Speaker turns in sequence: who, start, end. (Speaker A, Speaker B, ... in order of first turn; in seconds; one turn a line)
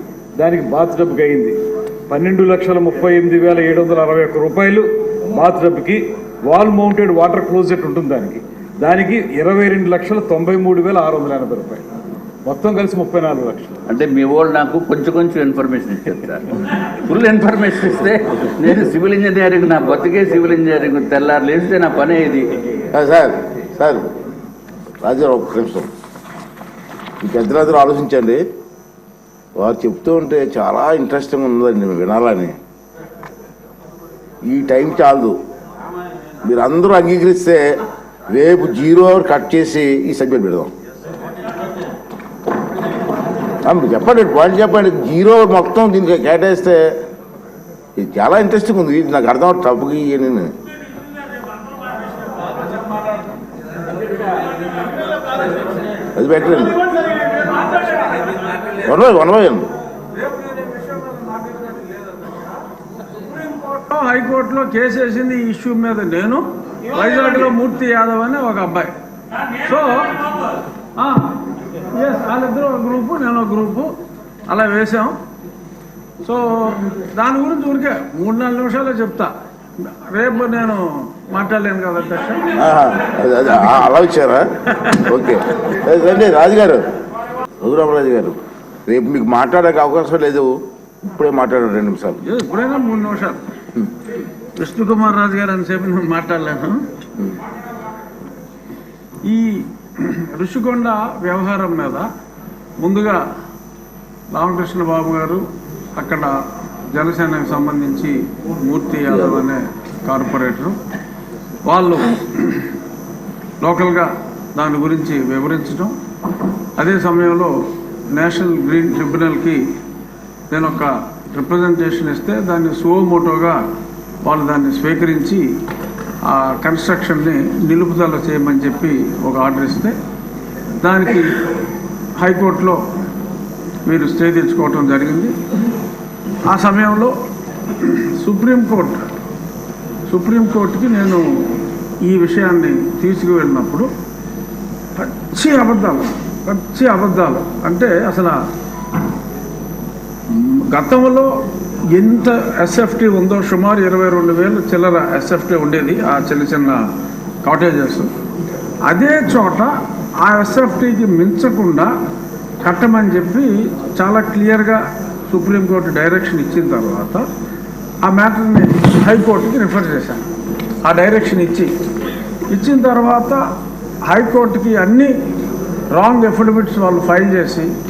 Speaker A: 0.4-1.6
Speaker A: 2.1-11.8
Speaker A: 12.4-13.8
Speaker B: 13.9-22.5
Speaker C: 22.9-24.1
Speaker C: 25.0-25.9
Speaker C: 27.2-28.4
Speaker C: 29.6-32.5
Speaker C: 34.5-35.4
Speaker C: 36.4-37.8
Speaker C: 38.3-40.7
Speaker C: 43.6-46.9
Speaker C: 48.0-50.5
Speaker C: 56.1-56.8
Speaker C: 58.8-59.7
Speaker D: 60.2-62.4
Speaker D: 63.3-68.9
Speaker D: 69.6-70.3
Speaker D: 71.0-71.3
Speaker D: 71.9-73.9
Speaker D: 74.5-75.1
Speaker D: 76.2-79.3
Speaker D: 79.9-82.4
Speaker C: 82.5-84.5
Speaker C: 85.0-86.8
Speaker C: 87.6-92.2
Speaker D: 92.2-93.4
Speaker D: 94.6-96.8
Speaker D: 99.2-102.1
Speaker D: 102.8-103.2
Speaker D: 104.3-105.4
Speaker D: 106.0-106.3
Speaker D: 106.9-110.8
Speaker C: 109.1-109.4
Speaker D: 111.7-112.7
Speaker D: 113.6-115.9
Speaker D: 116.8-117.5
Speaker D: 118.1-119.6
Speaker D: 120.5-123.6
Speaker D: 124.2-125.4
Speaker D: 126.2-129.9
Speaker D: 130.8-131.3
Speaker D: 132.2-132.8
Speaker D: 133.8-135.3
Speaker D: 136.5-137.1
Speaker D: 137.8-139.0
Speaker D: 140.1-141.2
Speaker D: 142.0-143.9
Speaker D: 144.9-148.4
Speaker D: 150.3-151.3
Speaker D: 151.9-156.8
Speaker D: 157.4-158.1
Speaker D: 158.9-159.7
Speaker D: 160.2-161.9
Speaker D: 162.6-167.2
Speaker D: 168.0-170.2
Speaker D: 170.8-171.7
Speaker D: 172.5-173.4
Speaker D: 174.1-175.1
Speaker D: 175.9-177.7